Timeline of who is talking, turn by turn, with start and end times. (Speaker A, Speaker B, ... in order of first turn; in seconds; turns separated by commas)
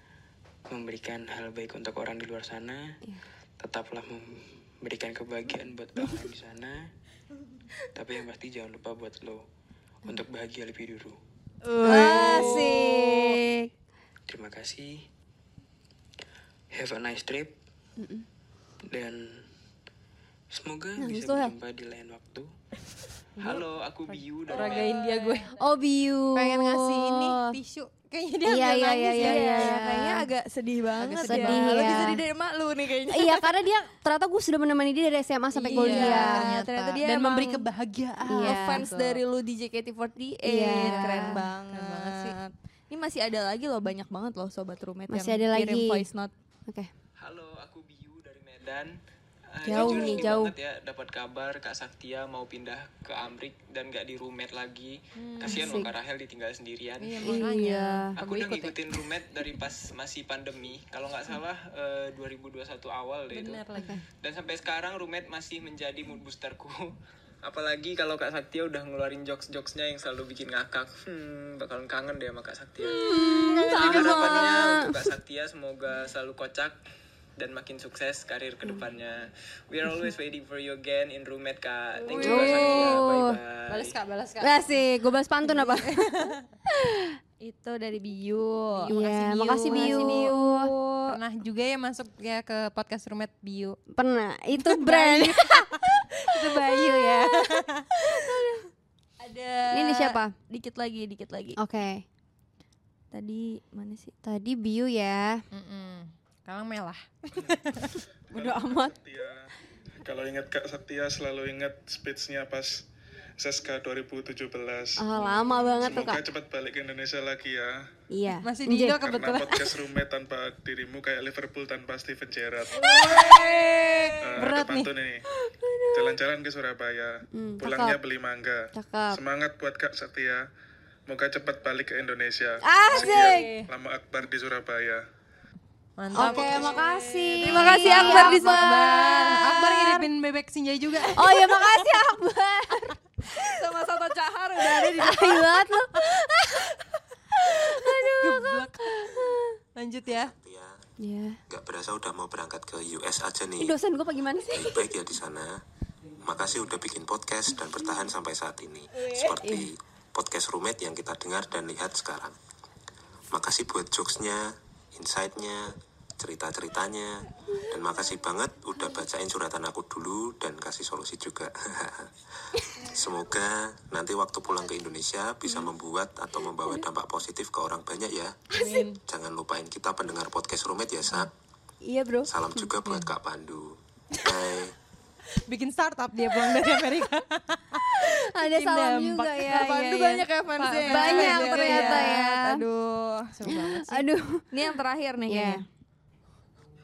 Speaker A: 0.7-3.0, Speaker A: 3.6-6.9, Speaker A: 7.9-9.4, Speaker A: 10.1-11.2, Speaker B: 11.8-13.3, Speaker C: 11.8-13.1, Speaker D: 11.8-13.7, Speaker A: 14.3-15.1, Speaker A: 16.7-17.6, Speaker D: 18.0-18.2, Speaker A: 18.9-19.4, Speaker A: 20.5-22.5, Speaker D: 21.0-21.5, Speaker A: 23.4-25.1, Speaker B: 23.4-25.5, Speaker C: 24.6-25.4, Speaker D: 25.5-27.6, Speaker B: 26.4-29.8, Speaker D: 28.4-30.3, Speaker C: 29.2-33.5, Speaker B: 31.0-32.2, Speaker D: 31.2-32.2, Speaker D: 33.1-36.5, Speaker C: 35.5-37.7, Speaker B: 35.7-39.2, Speaker D: 38.3-38.8, Speaker C: 38.4-46.3, Speaker D: 40.5-41.4, Speaker B: 40.8-42.4, Speaker D: 45.1-46.1, Speaker A: 47.2-49.0, Speaker A: 49.5-57.5, Speaker B: 49.6-50.3, Speaker D: 49.7-50.5, Speaker C: 50.1-50.4, Speaker B: 55.2-55.8, Speaker D: 55.4-55.9, Speaker B: 57.0-59.0, Speaker D: 57.2-58.1, Speaker A: 58.2-63.6, Speaker B: 63.3-64.0, Speaker D: 63.8-64.0, Speaker A: 64.2-76.8, Speaker D: 72.8-74.9, Speaker B: 73.4-74.6, Speaker A: 77.4-84.0, Speaker B: 82.0-83.1, Speaker D: 82.2-83.3, Speaker B: 83.7-84.6, Speaker D: 84.4-86.3, Speaker B: 85.5-86.4, Speaker D: 86.8-87.1, Speaker C: 87.4-91.2, Speaker B: 88.8-90.3, Speaker D: 88.9-90.7, Speaker B: 91.1-93.8, Speaker D: 94.0-95.7, Speaker B: 94.6-97.9, Speaker D: 96.5-97.1, Speaker C: 98.0-98.6, Speaker C: 99.2-101.6, Speaker D: 99.7-100.3, Speaker D: 101.6-102.0, Speaker C: 103.1-104.1, Speaker D: 104.2-105.4, Speaker B: 105.5-107.9, Speaker E: 108.3-109.5, Speaker D: 108.3-108.9, Speaker E: 110.0-112.9, Speaker E: 113.4-115.1, Speaker D: 115.0-116.2, Speaker E: 115.8-117.9, Speaker D: 118.1-119.0, Speaker B: 118.4-119.6, Speaker E: 118.9-123.2, Speaker B: 122.8-124.9, Speaker D: 122.8-124.2, Speaker C: 123.3-123.8, Speaker E: 124.2-125.2, Speaker D: 125.5-126.2, Speaker E: 125.9-130.5, Speaker D: 127.3-128.0, Speaker D: 128.7-129.2, Speaker E: 131.1-135.0, Speaker D: 132.6-133.5, Speaker B: 133.1-133.7, Speaker B: 136.0-141.8, Speaker D: 136.1-140.1, Speaker C: 136.2-136.7, Speaker C: 137.4-139.6, Speaker D: 141.2-142.9, Speaker C: 143.4-145.5, Speaker D: 145.0-146.7, Speaker D: 147.4-149.6, Speaker B: 147.9-150.3, Speaker F: 150.1-150.8, Speaker D: 151.0-151.4, Speaker F: 151.5-153.8, Speaker D: 153.6-154.9, Speaker F: 154.5-155.6, Speaker F: 156.2-162.3, Speaker D: 159.4-159.7, Speaker F: 163.3-172.1, Speaker F: 172.8-178.3, Speaker B: 178.6-179.0, Speaker F: 179.1-181.3, Speaker D: 181.8-182.6, Speaker F: 182.3-184.8, Speaker B: 185.5-189.7, Speaker D: 188.0-190.3, Speaker C: 189.4-193.3, Speaker B: 190.6-192.1, Speaker D: 190.8-192.6, Speaker B: 193.4-194.1, Speaker D: 193.5-194.4, Speaker C: 194.5-195.6, Speaker D: 195.3-195.6